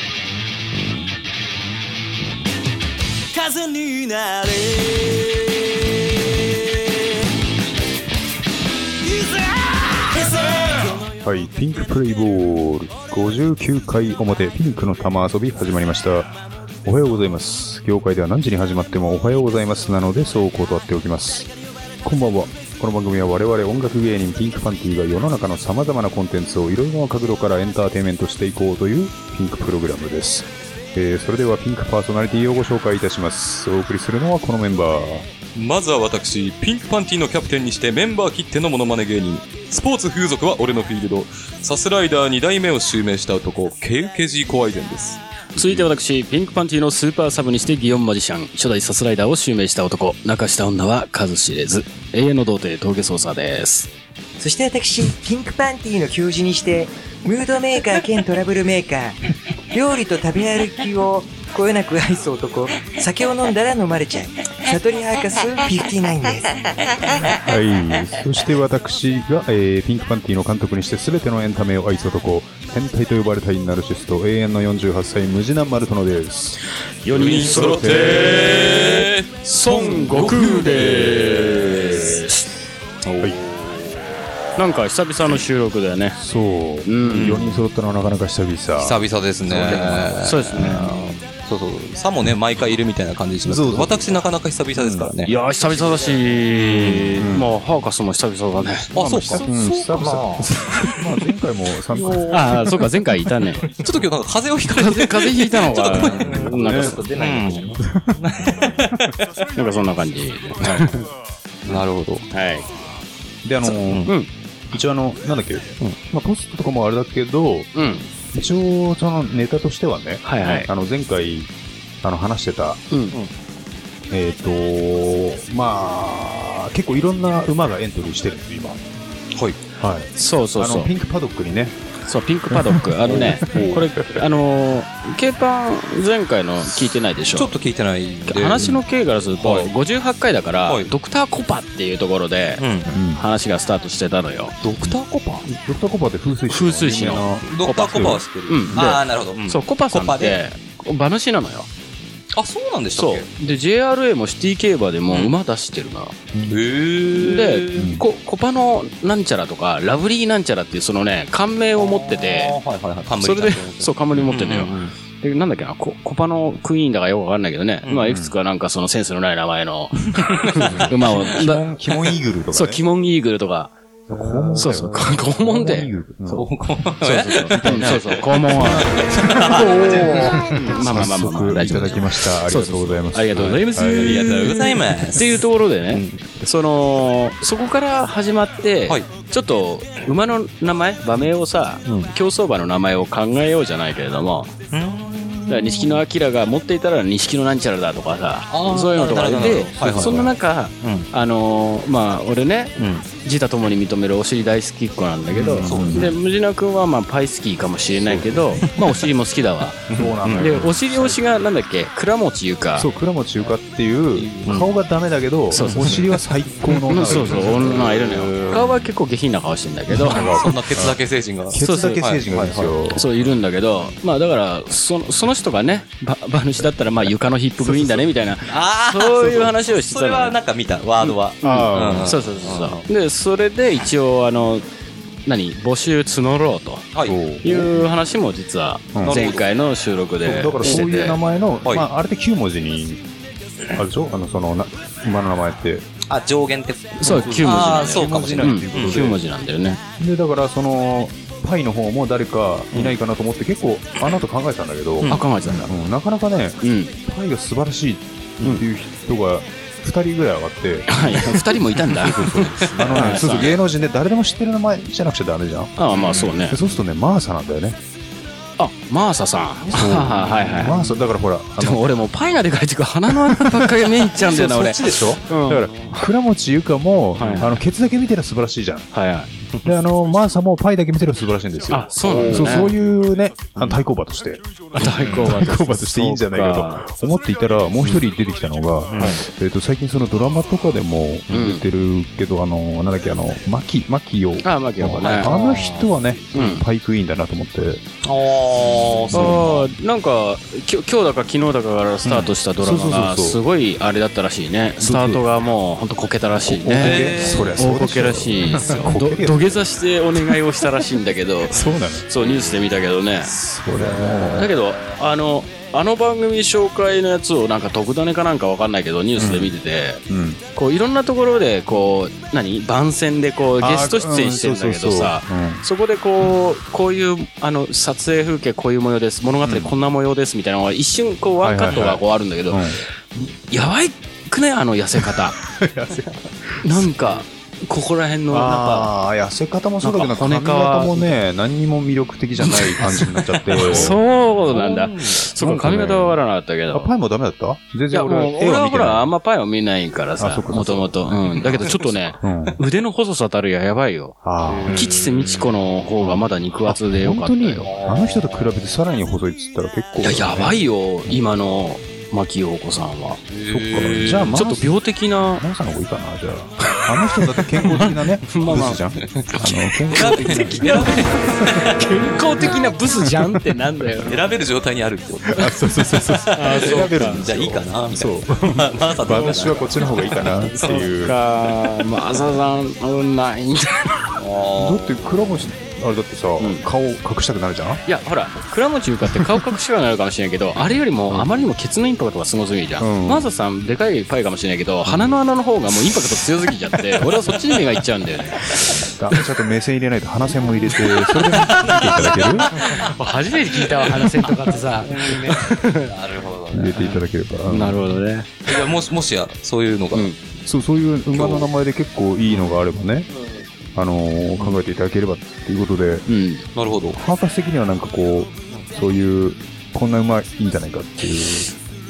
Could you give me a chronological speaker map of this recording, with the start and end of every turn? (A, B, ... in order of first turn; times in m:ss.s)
0:03.4-0:05.4 A
0:09.1-0:10.6 A
0:11.2-0:21.5 B
0:22.0-0:35.3 B
0:35.6-0:45.2 C
0:45.6-0:53.9 D
0:54.4-1:07.5 E
1:07.4-1:16.6 B
1:17.0-1:22.5 D
1:17.1-1:22.2 C
1:17.3-1:18.7 B
1:19.7-1:20.6 B
1:23.0-1:24.2 C
1:24.6-1:26.2 D
1:26.2-1:30.8 B
1:26.8-1:27.6 D
1:27.2-1:27.4 C
1:28.8-1:37.3 C
1:29.7-1:31.1 D
1:33.4-1:34.2 B
1:34.7-1:35.1 B
1:35.2-1:38.9 D
1:37.2-1:37.5 B
1:38.9-1:40.0 C
1:38.9-1:42.7 B
1:39.9-1:40.5 E
1:42.1-1:43.6 D
1:43.6-1:49.1 C
1:44.7-1:47.0 D
1:46.3-1:47.8 E
1:46.6-1:47.0 B
1:47.9-1:48.2 B
1:49.5-1:51.1 D
1:50.6-1:50.9 C
1:51.7-1:52.3 C
1:52.3-1:52.7 D
1:53.4-1:54.2 B
1:53.6-1:54.3 D
1:53.8-1:54.1 C
1:54.7-1:57.7 B
1:57.8-1:58.1 D
1:58.3-2:02.8 B
2:00.2-2:00.7 D
2:02.9-2:03.2 D
2:04.1-2:08.8 B
2:09.8-2:11.8 B
2:10.2-2:10.9 D
2:12.1-2:17.5 D
2:12.5-2:14.2 B
2:13.1-2:13.8 C
2:17.3-2:18.7 C
2:18.3-2:22.6 D
2:19.4-2:19.7 C
2:22.6-2:22.9 C
2:22.9-2:23.2 B
2:23.2-2:24.6 D
2:24.6-2:25.5 C
2:25.4-2:28.1 B
2:26.5-2:31.7 D
2:27.5-2:30.4 C
2:32.3-2:33.3 C
2:33.0-2:36.2 D
2:36.5-2:37.9 C
2:37.1-2:42.6 D
2:37.8-2:38.0 B
2:41.8-2:44.9 C
2:43.1-2:51.6 D
2:47.8-2:48.1 C
2:50.1-2:51.5 C
2:50.6-2:52.8 B
2:52.5-2:53.8 D
2:54.1-2:56.4 B
2:54.5-2:56.5 D
2:56.3-3:00.5 C
2:57.0-3:14.5 D
2:57.4-3:04.5 B
3:04.0-3:05.3 C
3:05.9-3:06.2 C
3:11.9-3:12.1 C
3:14.7-3:16.0 C
3:15.5-3:32.9 D
3:18.5-3:20.3 C
3:19.7-3:20.3 B
3:20.8-3:21.1 C
3:22.8-3:23.1 C
3:25.3-3:26.2 B
3:25.6-3:26.1 C
3:28.0-3:28.6 B
3:29.9-3:30.5 C
3:30.0-3:31.2 B
3:32.8-3:38.5 B
3:34.2-3:34.7 C
3:35.5-3:36.0 D
3:36.9-3:40.4 D
3:37.1-3:38.7 C
3:39.9-3:41.0 B
3:40.1-3:43.4 C
3:41.5-3:43.0 B
3:41.6-3:42.0 D
3:43.0-3:50.4 D
3:47.6-3:48.0 B
3:48.5-3:52.8 C
3:51.0-3:54.7 D
3:51.4-3:52.2 B
3:55.3-3:56.9 D
3:56.9-3:57.2 C
3:57.0-3:57.7 B
3:57.4-4:01.2 D
3:58.9-3:59.3 B
3:59.0-3:59.5 C
4:00.2-4:03.0 B
4:03.7-4:05.8 B
4:06.1-4:09.2 C
4:07.0-4:09.2 B
4:07.0-4:09.8 D
4:10.0-4:27.8 B
4:15.0-4:15.5 C
4:15.1-4:15.7 D
4:16.6-4:17.0 D
4:20.9-4:23.6 D
4:22.6-4:23.4 C
4:25.8-4:26.6 D
4:28.6-4:30.9 D
4:29.7-4:30.9 C
4:29.7-4:32.0 B
4:31.6-4:36.1 D
4:33.1-4:38.9 B
4:37.2-4:37.6 D
4:38.9-4:39.3 D
4:39.6-4:57.8 B
4:41.7-4:42.8 D
4:42.0-4:42.6 C
4:44.8-4:46.8 D
4:44.8-4:45.3 C
4:48.9-4:49.2 C
4:51.3-4:51.6 D
4:54.4-4:55.3 D
4:55.2-4:55.9 E
4:56.3-4:56.6 D
4:58.0-4:59.5 C
4:58.6-4:59.7 B
4:59.1-5:13.3 D
5:02.0-5:03.4 B
5:04.8-5:05.2 B
5:06.4-5:10.7 B
5:06.8-5:07.6 C
5:11.5-5:12.1 B
5:13.2-5:14.5 B
5:13.8-5:14.5 C
5:14.4-5:20.0 D
5:19.2-5:19.6 B
5:20.1-5:20.4 B
5:20.6-5:32.7 D
5:23.6-5:25.6 B
5:29.4-5:29.8 B
5:31.4-5:32.8 B
5:33.5-5:35.4 D
5:35.0-5:37.1 B
5:36.6-5:38.9 D
5:38.3-5:44.0 B
5:39.8-5:41.2 D
5:42.4-5:46.9 D
5:43.5-5:45.2 C
5:45.4-5:46.2 B
5:46.7-5:49.1 B
5:47.9-5:54.2 D
5:50.2-5:51.4 B
5:51.4-5:52.1 C
5:52.2-5:52.6 B
5:54.2-5:54.8 B
5:54.5-5:55.5 C
5:54.7-5:57.7 D
5:56.6-6:01.2 B
5:57.6-5:58.5 C
6:00.0-6:03.2 D
6:03.3-6:04.3 C
6:03.5-6:04.8 B
6:03.8-6:05.4 D
6:05.4-6:14.0 B
6:06.7-6:14.2 D
6:09.9-6:11.9 C
6:14.0-6:15.6 C
6:15.4-6:21.2 B
6:16.2-6:17.2 D
6:16.4-6:20.9 C
6:19.8-6:24.2 D
6:24.2-6:25.4 C
6:24.5-6:27.8 B
6:26.4-6:26.7 D
6:27.9-6:39.2 D
6:29.0-6:29.5 B
6:32.8-6:33.3 B
6:34.8-6:35.2 B
6:35.9-6:36.2 B
6:36.8-6:37.1 B
6:38.6-6:42.5 B
6:40.7-6:45.9 D
6:41.2-6:42.9 C
6:43.6-6:44.0 C
6:44.0-6:44.9 E
6:44.9-6:47.0 C
6:46.5-6:48.0 B
6:47.5-6:48.7 D
6:48.5-6:50.1 C
6:50.5-6:53.1 B
6:51.1-6:51.5 C
6:52.3-6:52.6 C
6:53.8-6:56.1 B
6:56.1-6:56.4 D
6:56.6-6:57.0 C
6:56.9-7:01.5 B